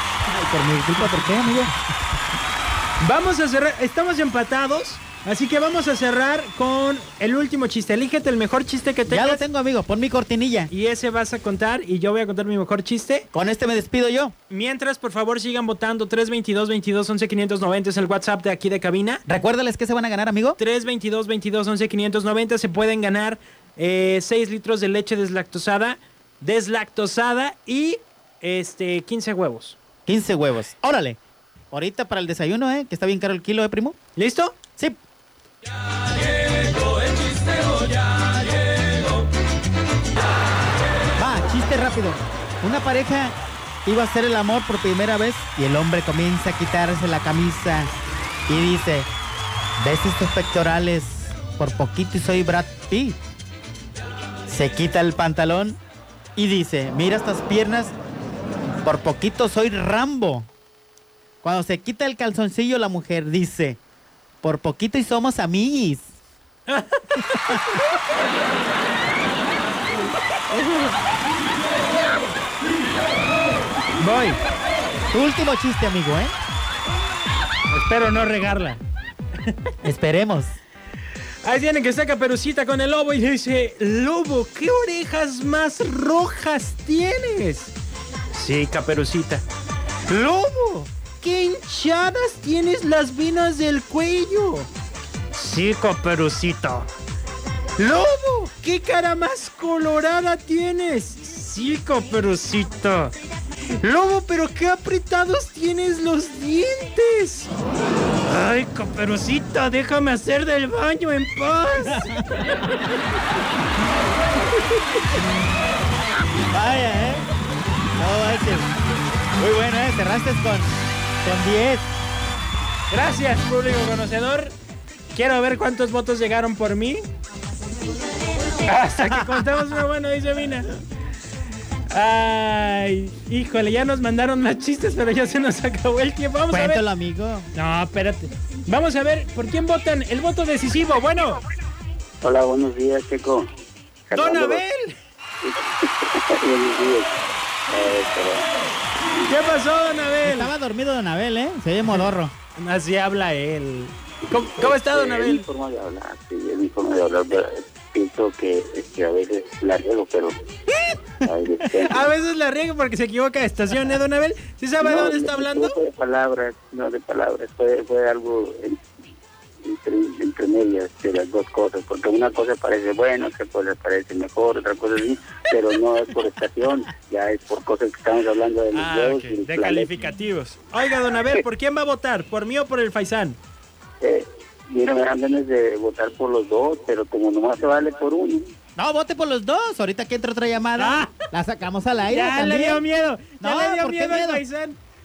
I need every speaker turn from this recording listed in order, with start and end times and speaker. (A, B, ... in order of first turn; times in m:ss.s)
0:00.3-0:01.7 A
0:03.0-0:09.4 B
0:09.1-0:10.7 A
0:10.7-0:13.3 B
0:13.3-0:14.3 A
0:14.5-0:19.2 B
0:19.3-0:20.6 A
0:20.6-0:29.8 B
0:30.1-0:31.2 A
0:31.7-0:34.0 A
0:34.2-0:34.6 B
0:37.4-0:37.6 B
0:41.2-0:43.3 A
0:43.8-0:47.9 A
0:48.5-0:49.1 A
0:49.8-0:53.2 A
0:54.5-0:55.8 A
0:56.4-0:58.0 A
0:58.8-1:00.5 A
1:01.4-1:03.8 A
1:04.4-1:06.1 A
1:06.7-1:07.6 B
1:07.5-1:07.8 A
1:10.5-1:10.9 B
1:14.0-1:14.4 B
1:15.1-1:16.3 A
1:17.7-1:18.8 B
1:19.4-1:19.7 B
1:19.8-1:20.6 A
1:21.4-1:27.7 B
1:28.3-1:29.4 B
1:30.1-1:30.8 A
1:31.1-1:34.7 B
1:35.3-1:36.9 B
1:37.8-1:43.2 B
1:43.8-1:47.5 B
1:48.2-1:52.2 B
1:56.5-1:57.3 A
1:58.0-1:58.7 A
1:59.4-2:01.9 A
2:02.9-2:04.5 B
2:05.1-2:07.0 B
2:08.6-2:10.8 B
2:11.9-2:16.8 B
2:16.5-2:17.5 A
2:17.6-2:21.4 B
2:22.2-2:23.5 C
2:24.1-2:24.6 C
2:24.1-2:24.9 B
2:25.4-2:27.1 C
2:27.7-2:28.5 C
2:29.3-2:30.5 B
2:30.2-2:32.3 A
2:32.6-2:35.5 B
2:34.6-2:40.4 C
2:41.2-2:42.1 C
2:41.8-2:45.8 B
2:44.8-2:48.8 C
2:49.6-2:59.9 C
2:58.7-3:03.4 B
3:04.0-3:08.5 C
3:08.8-3:12.8 A
3:10.8-3:11.2 B
3:12.1-3:14.8 B
3:13.4-3:14.4 A